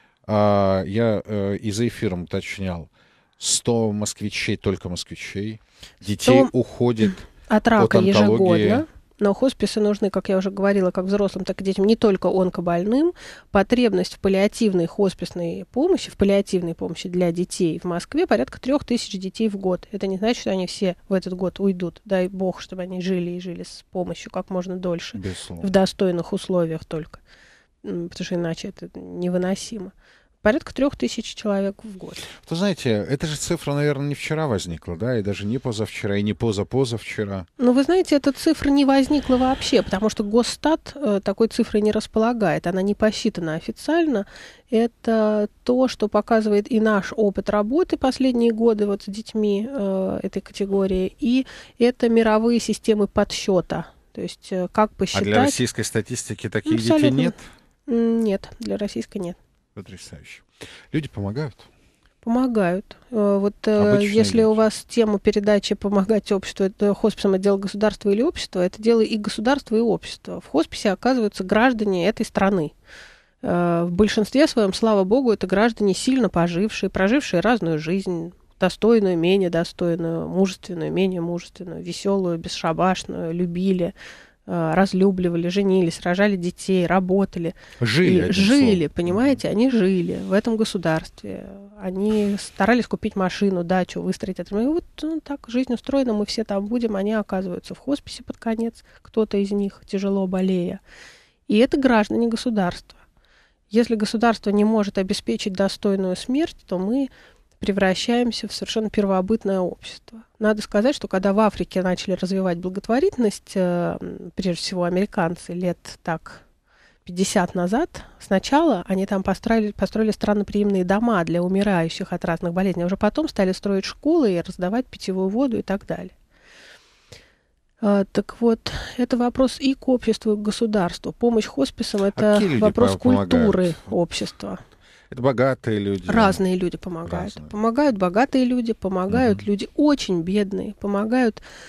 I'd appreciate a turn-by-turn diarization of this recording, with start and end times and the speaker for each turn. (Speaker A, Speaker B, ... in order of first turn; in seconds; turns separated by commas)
Speaker A: 0.3-8.8, Speaker B: 6.2-6.5, Speaker B: 7.4-27.2, Speaker A: 25.1-25.7, Speaker B: 27.8-32.3, Speaker A: 32.4-37.5, Speaker B: 37.6-55.6, Speaker A: 55.1-57.4, Speaker B: 56.6-57.4, Speaker B: 57.9-59.4, Speaker A: 59.8-61.7, Speaker B: 62.2-72.7, Speaker A: 63.8-64.6, Speaker B: 73.4-83.9, Speaker B: 84.5-100.8, Speaker A: 87.8-89.4, Speaker B: 101.5-103.0, Speaker B: 103.7-116.4, Speaker B: 117.0-126.1, Speaker B: 127.8-134.6, Speaker A: 132.1-133.9, Speaker A: 135.1-136.4, Speaker B: 136.1-141.4, Speaker A: 137.1-137.5, Speaker A: 139.1-139.4